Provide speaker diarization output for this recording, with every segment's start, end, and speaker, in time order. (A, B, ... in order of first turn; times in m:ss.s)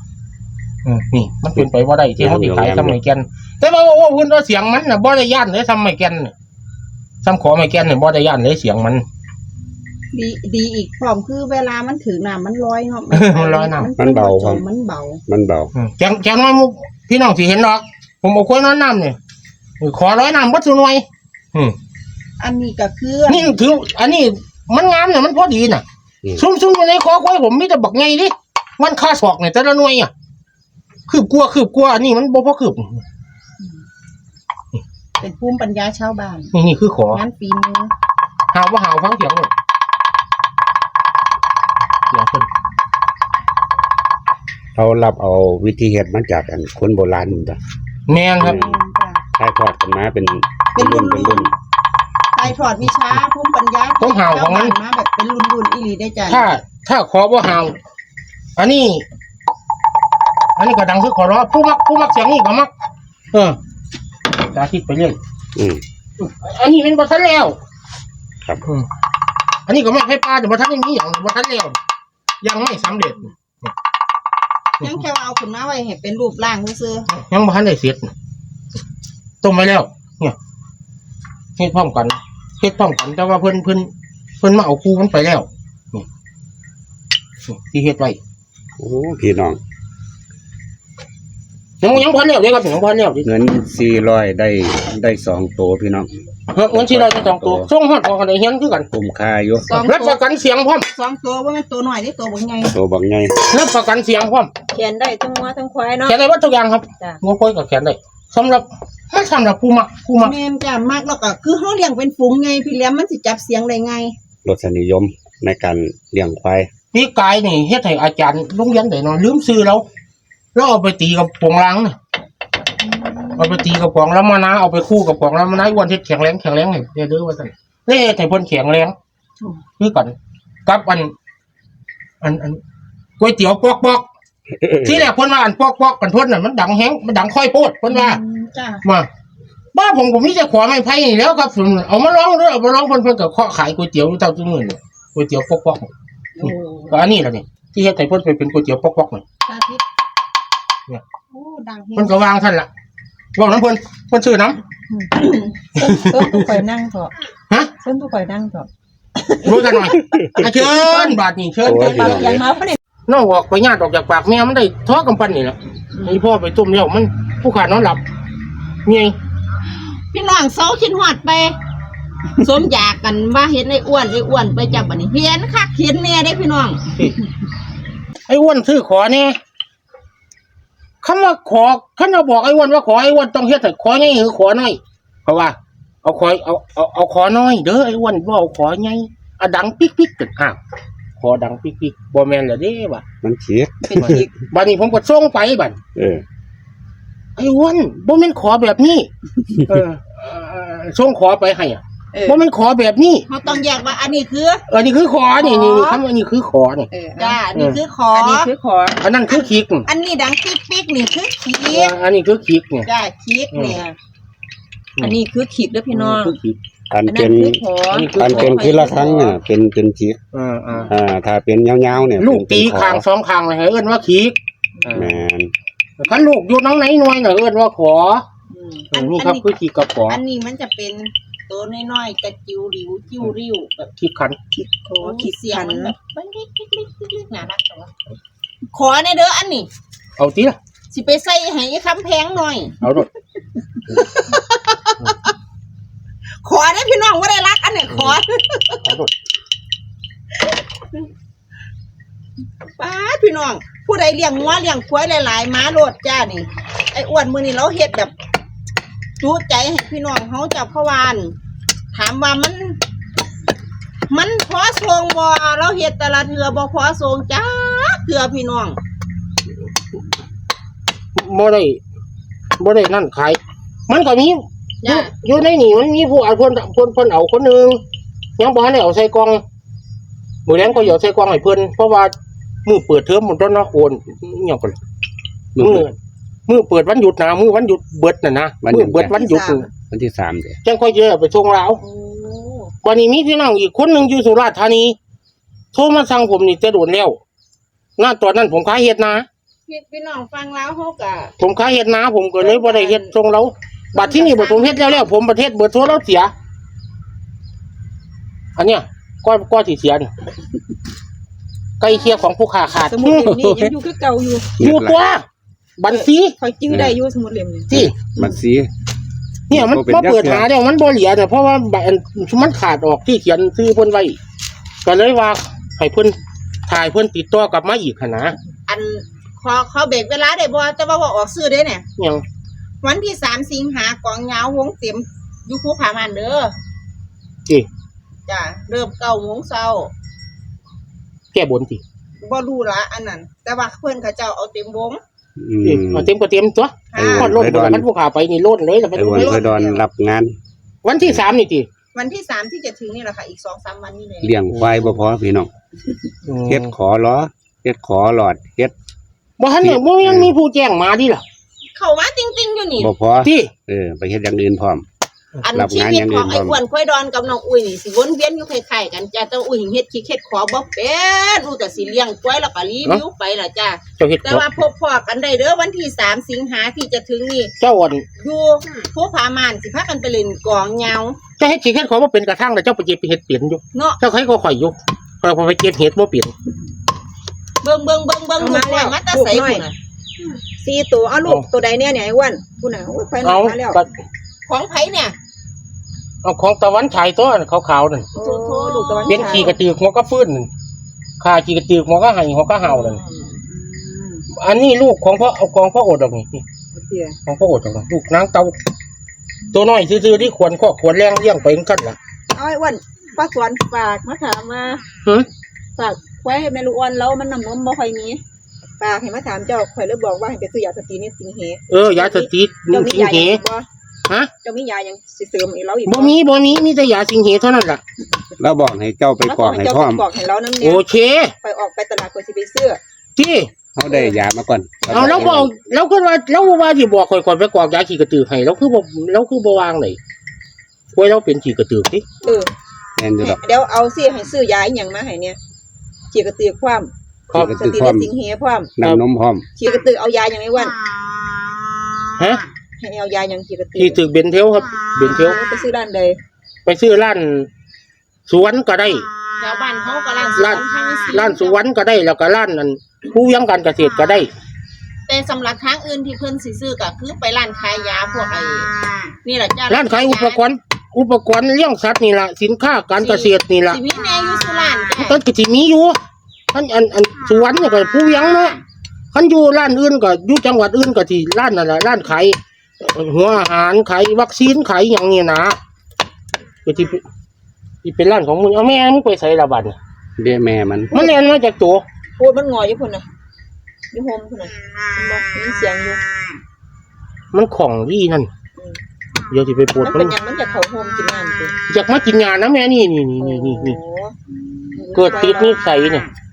0:00.8-0:06.3 A
0:02.2-0:03.0 B
0:07.2-0:09.0 A
0:10.1-0:15.2 C
0:13.1-0:13.9 A
0:14.0-0:14.6 B
0:15.3-0:15.7 B
0:15.7-0:19.2 A
0:19.8-0:21.8 A
0:22.4-0:23.5 C
0:23.3-0:25.8 A
0:26.4-0:30.1 A
0:31.1-0:33.0 A
0:35.2-0:36.5 C
0:36.5-0:37.2 A
0:37.1-0:37.9 C
0:38.5-0:39.5 A
0:42.1-0:42.5 A
0:44.7-0:47.6 B
0:48.1-0:48.6 A
0:48.4-0:48.8 B
0:48.4-0:49.2 C
0:49.4-0:51.5 B
0:50.7-0:51.5 C
0:52.3-0:56.5 C
0:54.0-0:54.8 A
0:56.3-0:57.8 A
0:58.6-0:59.0 A
1:00.6-1:02.7 A
1:03.3-1:03.6 A
1:04.4-1:05.2 A
1:05.6-1:05.8 B
1:06.2-1:07.6 A
1:09.7-1:11.8 A
1:12.4-1:13.7 A
1:14.8-1:17.1 C
1:17.1-1:18.1 A
1:19.4-1:20.4 A
1:21.6-1:23.9 A
1:24.4-1:26.0 A
1:27.5-1:28.2 A
1:28.8-1:29.6 B
1:31.8-1:33.3 A
1:33.2-1:36.1 B
1:36.5-1:38.9 A
1:36.7-1:37.7 B
1:38.9-1:39.8 B
1:39.6-1:40.2 C
1:39.7-1:40.9 A
1:40.9-1:42.8 C
1:42.7-1:43.4 B
1:43.5-1:44.5 A
1:44.7-1:46.2 D
1:46.0-1:50.4 A
1:50.2-1:54.2 C
1:54.4-1:56.7 B
1:56.9-1:59.8 A
2:00.5-2:02.0 A
2:03.4-2:08.9 A
2:09.8-2:10.1 A
2:10.6-2:11.1 A
2:12.2-2:12.6 A
2:13.2-2:14.0 A
2:14.6-2:15.0 B
2:14.8-2:18.2 A
2:17.9-2:18.8 C
2:19.7-2:25.9 A
2:26.4-2:26.9 C
2:26.4-2:29.2 A
2:29.4-2:29.8 C
2:31.3-2:32.2 C
2:32.0-2:32.7 A
2:33.3-2:34.6 A
2:34.9-2:37.1 D
2:35.8-2:36.4 A
2:37.8-2:38.7 D
2:39.4-2:42.4 A
2:39.6-2:39.8 D
2:40.2-2:40.4 B
2:41.6-2:42.4 B
2:41.8-2:42.8 D
2:43.1-2:48.0 A
2:48.8-2:49.2 A
2:50.1-2:51.6 C
2:52.4-2:56.8 C
2:58.3-2:59.4 A
3:01.0-3:10.6 A
3:11.2-3:13.0 A
3:13.2-3:14.2 B
3:13.8-3:14.3 D
3:14.5-3:15.8 A
3:15.9-3:16.2 B
3:17.4-3:19.1 A
3:19.6-3:23.3 A
3:22.1-3:22.4 D
3:23.3-3:24.6 C
3:24.7-3:26.9 A
3:25.4-3:26.0 C
3:26.9-3:27.4 D
3:27.2-3:28.5 C
3:27.5-3:27.8 A
3:28.1-3:29.0 D
3:29.0-3:29.9 A
3:29.3-3:31.9 C
3:31.6-3:32.9 A
3:32.8-3:33.8 C
3:33.5-3:33.8 A
3:35.0-3:36.4 D
3:35.9-3:36.6 A
3:36.9-3:37.6 B
3:37.0-3:39.1 D
3:37.9-3:39.2 A
3:38.1-3:40.2 B
3:40.3-3:40.9 A
3:40.9-3:43.0 B
3:42.2-3:45.2 A
3:44.9-3:45.5 B
3:46.0-3:48.2 A
3:48.5-3:48.9 D
3:48.9-3:49.5 C
3:48.9-3:50.2 A
3:50.1-3:53.9 C
3:54.0-3:54.4 A
3:54.5-3:55.9 D
3:55.0-3:57.9 C
3:58.7-3:59.7 C
4:00.2-4:00.6 A
4:00.9-4:02.7 C
4:02.8-4:03.1 A
4:03.9-4:05.3 C
4:06.4-4:08.9 C
4:07.9-4:08.2 A
4:08.8-4:09.1 A
4:12.8-4:18.1 C
4:19.2-4:21.4 C
4:21.9-4:22.8 C
4:24.1-4:28.8 C
4:31.2-4:31.8 A
4:32.6-4:37.8 A
4:34.8-4:35.1 C
4:38.4-4:39.4 A
4:40.4-4:42.1 A
4:42.6-4:44.8 A
4:45.5-4:45.9 B
4:45.6-4:45.9 A
4:46.5-4:49.7 A
4:48.6-4:49.2 B
4:49.1-4:49.7 D
4:49.9-4:50.6 B
4:50.6-4:51.8 A
4:51.8-4:52.7 C
4:52.8-4:55.0 A
4:55.7-4:57.2 A
4:58.0-4:59.3 A
4:59.7-5:01.3 C
5:01.4-5:06.3 A
5:02.4-5:03.1 C
5:03.9-5:05.0 C
5:08.6-5:10.1 A
5:11.8-5:13.7 A
5:12.9-5:14.5 D
5:14.6-5:15.0 B
5:14.6-5:15.2 A
5:15.8-5:16.3 A
5:15.9-5:17.7 D
5:16.7-5:17.0 B
5:17.7-5:18.7 B
5:19.5-5:24.2 A
5:19.5-5:20.5 B
5:24.8-5:28.4 A
5:28.7-5:31.9 C
5:32.0-5:32.2 A
5:32.8-5:36.5 C
5:38.3-5:39.9 C
5:41.3-5:41.8 A
5:42.2-5:45.0 C
5:45.4-5:46.1 B
5:45.6-5:49.4 A
5:46.9-5:47.4 C
5:47.0-5:47.8 B
5:48.9-5:50.3 B
5:49.1-5:49.8 C
5:50.8-5:51.7 A
5:51.9-5:54.3 C
5:54.2-5:55.5 B
5:54.5-5:55.0 A
5:56.2-5:56.7 A
5:56.5-5:58.7 B
5:59.4-6:01.2 A
5:59.6-6:00.3 B
6:01.7-6:02.9 C
6:02.8-6:04.8 B
6:03.2-6:03.5 A
6:05.4-6:17.5 C
6:05.5-6:06.6 B
6:14.0-6:14.6 A
6:17.6-6:18.1 A
6:18.2-6:21.2 C
6:21.4-6:26.3 A
6:23.7-6:24.0 C
6:27.6-6:29.7 C
6:28.4-6:29.7 D
6:30.6-6:33.8 D
6:33.2-6:33.9 A
6:34.4-6:35.2 C
6:36.2-6:38.1 A
6:38.1-6:39.6 D
6:38.2-6:39.6 C
6:39.1-6:40.5 A
6:41.2-6:43.0 A
6:42.7-6:43.2 C
6:43.4-6:44.2 D
6:44.3-6:46.4 A
6:46.7-6:47.2 D
6:47.2-6:48.6 A
6:49.5-6:52.0 A
6:52.3-6:54.8 D
6:55.8-6:58.2 D
6:58.8-7:03.7 D
7:01.7-7:03.4 A
7:04.4-7:06.2 D
7:05.8-7:07.8 A
7:08.4-7:10.0 B
7:09.2-7:10.8 D
7:10.6-7:11.3 A
7:11.4-7:12.8 D
7:13.2-7:13.5 A
7:13.7-7:15.5 B
7:13.8-7:14.2 D
7:14.9-7:20.0 A
7:14.9-7:15.3 D
7:20.9-7:22.0 A
7:22.2-7:22.5 D
7:23.0-7:23.4 B
7:23.2-7:25.4 D
7:26.1-7:26.9 D
7:27.3-7:27.5 A
7:27.3-7:28.1 B
7:27.4-7:28.7 D
7:28.8-7:29.4 B
7:29.6-7:30.8 D
7:32.2-7:32.4 A
7:32.8-7:34.0 D
7:33.8-7:35.4 A
7:35.0-7:36.2 D
7:36.6-7:37.5 A
7:38.3-7:39.1 A
7:39.4-7:41.6 C
7:40.3-7:44.3 A
7:45.1-7:48.7 C
7:49.2-7:50.4 C
7:49.7-7:53.8 A
7:53.0-7:55.2 C
7:55.0-7:56.0 A
7:56.5-7:58.6 A
7:59.1-8:05.6 A
8:06.6-8:07.0 A
8:07.8-8:09.8 A
8:10.2-8:11.0 B
8:10.9-8:11.8 A
8:12.2-8:13.1 D
8:13.9-8:16.0 D
8:17.3-8:18.3 A
8:19.3-8:20.2 A
8:19.8-8:21.5 D
8:21.7-8:23.8 A
8:23.2-8:24.1 D
8:24.7-8:25.6 D
8:24.9-8:26.1 A
8:25.0-8:25.3 C